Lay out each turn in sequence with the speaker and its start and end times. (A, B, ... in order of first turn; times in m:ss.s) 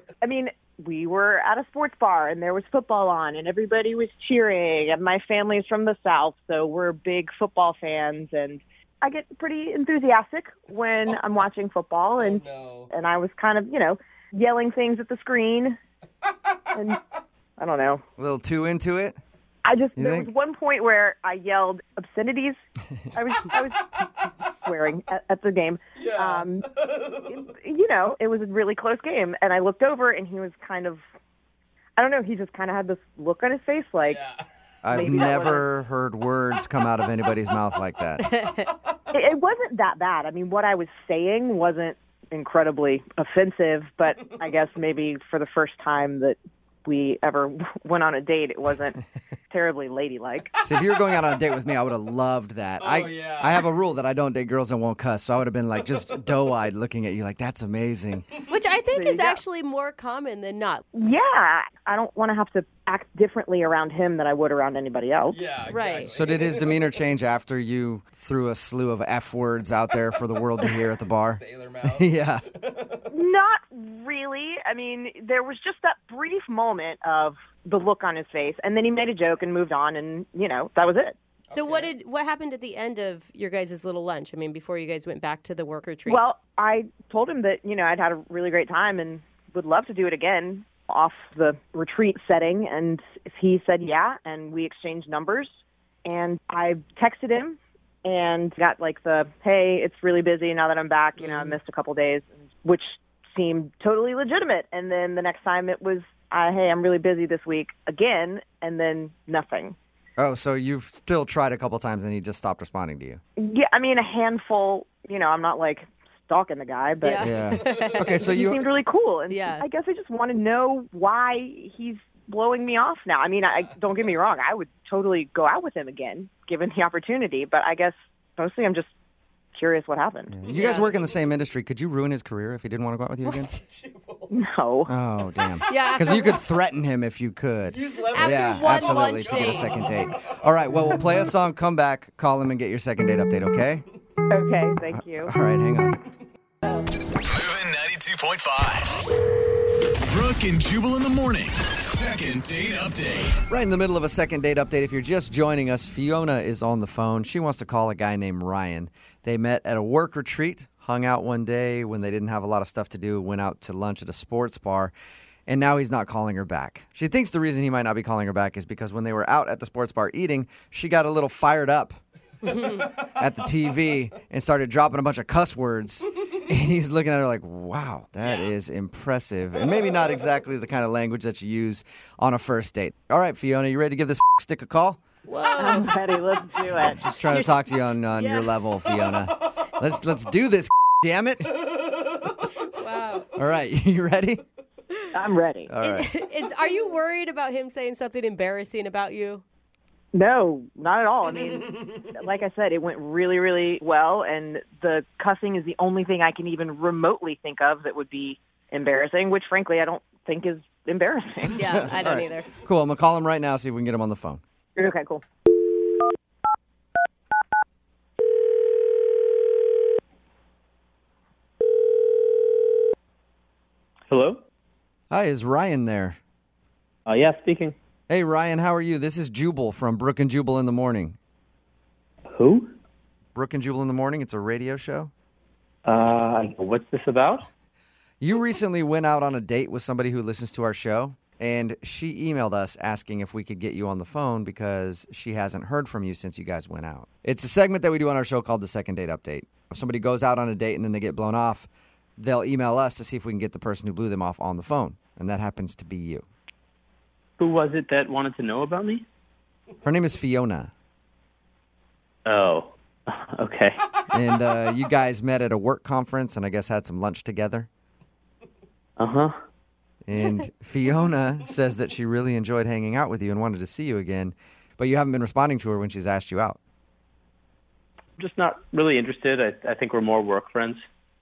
0:00.2-0:15.8 A
0:12.2-0:12.9 B
0:16.3-0:16.6 B
0:16.7-0:17.0 A
0:17.6-0:18.0 A
0:18.2-0:19.2 C
0:19.6-0:22.6 A
0:20.0-0:20.3 C
0:23.1-0:23.9 A
0:24.6-0:26.7 A
0:26.0-0:27.4 B
0:27.3-0:31.0 A
0:32.0-0:34.2 A
0:34.0-0:34.5 B
0:34.8-0:38.2 C
0:34.9-0:35.7 A
0:38.2-0:38.6 D
0:39.1-0:50.5 A
0:44.2-0:44.4 B
0:50.6-0:58.3 C
0:52.8-0:53.6 B
0:58.5-1:00.8 D
0:58.9-0:59.4 A
1:00.9-1:05.4 A
1:05.3-1:07.0 B
1:05.7-1:06.1 D
1:06.0-1:11.4 C
1:11.2-1:13.1 B
1:11.9-1:12.4 C
1:13.1-1:21.2 A
1:21.5-1:21.9 B
1:21.5-1:26.2 D
1:26.1-1:35.5 A
1:36.1-1:49.8 A
1:50.2-1:53.2 C
1:53.4-1:57.5 A
1:57.0-1:58.3 D
1:57.2-1:58.6 C
1:58.2-2:08.9 A
1:59.3-1:59.6 D
2:09.6-2:10.3 A
2:10.3-2:13.6 C
2:10.5-2:10.9 D
2:13.6-2:14.4 B
2:14.3-2:14.9 A
2:14.9-2:23.8 C
2:15.7-2:16.4 D
2:17.7-2:21.0 B
2:18.1-2:19.8 D
2:24.3-2:25.3 A
2:25.2-2:26.0 C
2:27.2-2:29.0 E
2:30.1-2:33.4 E
2:33.4-2:44.9 C
2:45.5-2:52.0 C
2:52.6-3:05.0 C
2:52.6-2:53.1 B
2:58.2-2:58.5 B
3:05.3-3:05.9 D
3:05.6-3:07.0 A
3:06.8-3:11.6 C
3:07.3-3:08.5 D
3:11.6-3:12.4 B
3:12.7-3:13.3 D
3:13.4-3:14.4 C
3:15.1-3:15.7 A
3:15.7-3:16.1 C
3:15.8-3:19.4 D
3:20.1-3:31.9 A
3:31.5-3:32.5 D
3:31.5-3:34.4 C
3:34.8-3:35.7 A
3:44.1-3:44.4 F
3:45.1-3:46.2 C
3:47.1-3:47.8 F
3:48.1-3:51.2 C
3:52.3-3:52.7 F
3:53.4-3:55.1 C
3:55.8-3:57.5 F
3:58.2-4:16.2 C
4:17.4-4:19.0 F
4:19.8-4:20.7 C
4:22.3-4:23.8 F
4:24.1-4:27.7 C
4:29.0-4:29.4 F
4:30.0-4:36.6 C
4:38.2-4:40.8 F